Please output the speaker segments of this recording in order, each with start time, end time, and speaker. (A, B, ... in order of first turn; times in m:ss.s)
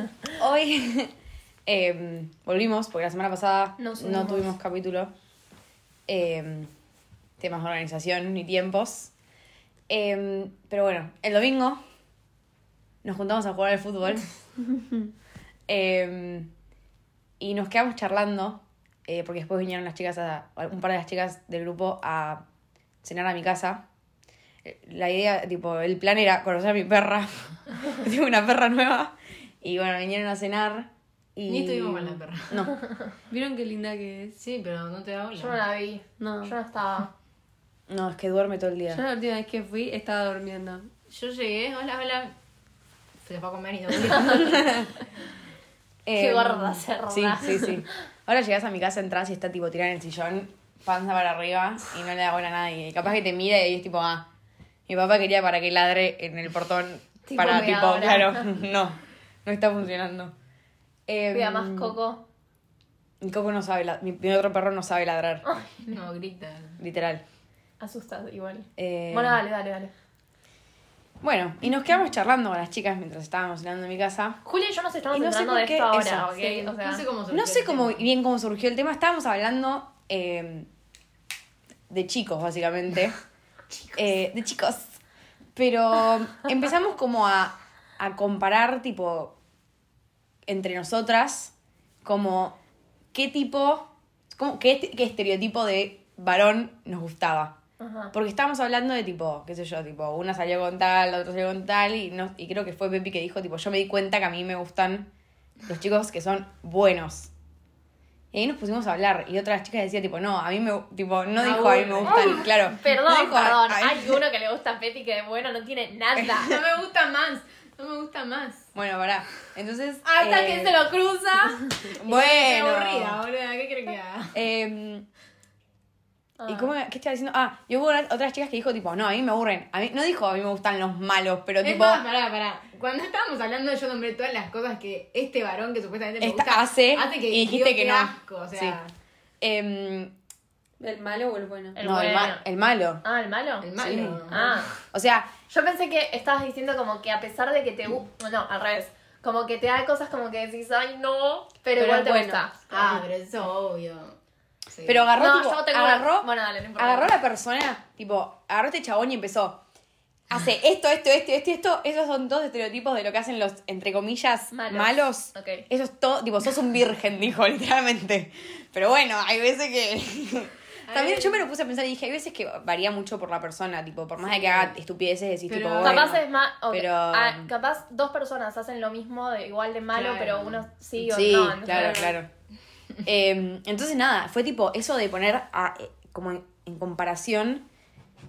0:00.4-0:01.1 A
0:01.7-0:05.1 A
0:03.8-0:04.5 B
0:06.1-0:06.7 A
0:07.4-0:09.1 A
0:09.9-0:11.8 A
0:13.0-0:14.3 A
0:15.7-0:16.5 A
0:17.4-0:22.4 A
0:23.0-0:23.8 A
0:24.6-0:32.8 A
0:31.5-0:32.6 C
0:33.3-0:34.4 D
0:34.4-0:35.6 C
0:35.4-0:37.1 B
0:36.2-0:36.5 D
0:37.9-0:39.0 A
0:38.9-0:40.9 D
0:41.1-0:42.3 C
0:43.2-0:44.9 C
0:44.2-0:44.9 A
0:46.0-0:54.3 A
0:46.1-0:47.8 B
0:54.9-1:00.3 A
0:57.3-0:58.5 B
1:01.1-1:02.0 A
1:01.3-1:02.2 B
1:03.2-1:05.4 A
1:05.4-1:05.8 B
1:05.8-1:06.8 C
1:06.8-1:07.2 A
1:07.8-1:09.9 B
1:08.8-1:09.4 A
1:11.2-1:14.4 A
1:14.4-1:17.0 B
1:15.1-1:16.7 A
1:16.8-1:18.1 C
1:17.3-1:20.7 A
1:21.9-1:23.2 A
1:23.7-1:24.1 C
1:24.0-1:25.0 A
1:25.6-1:29.4 A
1:30.5-1:31.5 A
1:32.0-1:32.6 A
1:33.1-1:37.6 A
1:37.8-1:38.1 B
1:38.1-1:45.1 A
1:45.7-1:47.3 A
1:48.3-1:54.2 A
1:51.4-1:52.4 C
1:52.0-1:56.6 B
1:56.2-1:56.5 A
1:56.4-1:58.7 C
1:58.8-2:00.9 A
2:00.0-2:01.8 B
2:01.8-2:03.2 A
2:01.9-2:04.4 C
2:04.3-2:05.1 A
2:06.4-2:06.7 B
2:06.5-2:12.0 A
2:11.6-2:18.9 C
2:16.2-2:18.8 A
2:19.4-2:20.1 A
2:20.8-2:21.8 D
2:21.8-2:22.4 B
2:21.8-2:23.0 A
2:23.0-2:23.7 B
2:23.6-2:24.4 C
2:23.8-2:25.3 A
2:24.3-2:24.7 B
2:25.5-2:32.9 B
2:31.8-2:32.5 D
2:32.7-2:34.2 C
2:34.7-2:35.1 C
2:34.9-2:39.6 A
2:35.2-2:37.2 B
2:40.3-2:57.5 A
2:44.5-2:45.6 B
2:50.9-2:51.4 C
2:54.2-2:54.7 C
2:55.5-2:56.2 C
2:55.8-3:02.1 B
2:59.9-3:00.6 C
3:01.0-3:02.3 A
3:01.7-3:02.2 D
3:03.0-3:07.7 A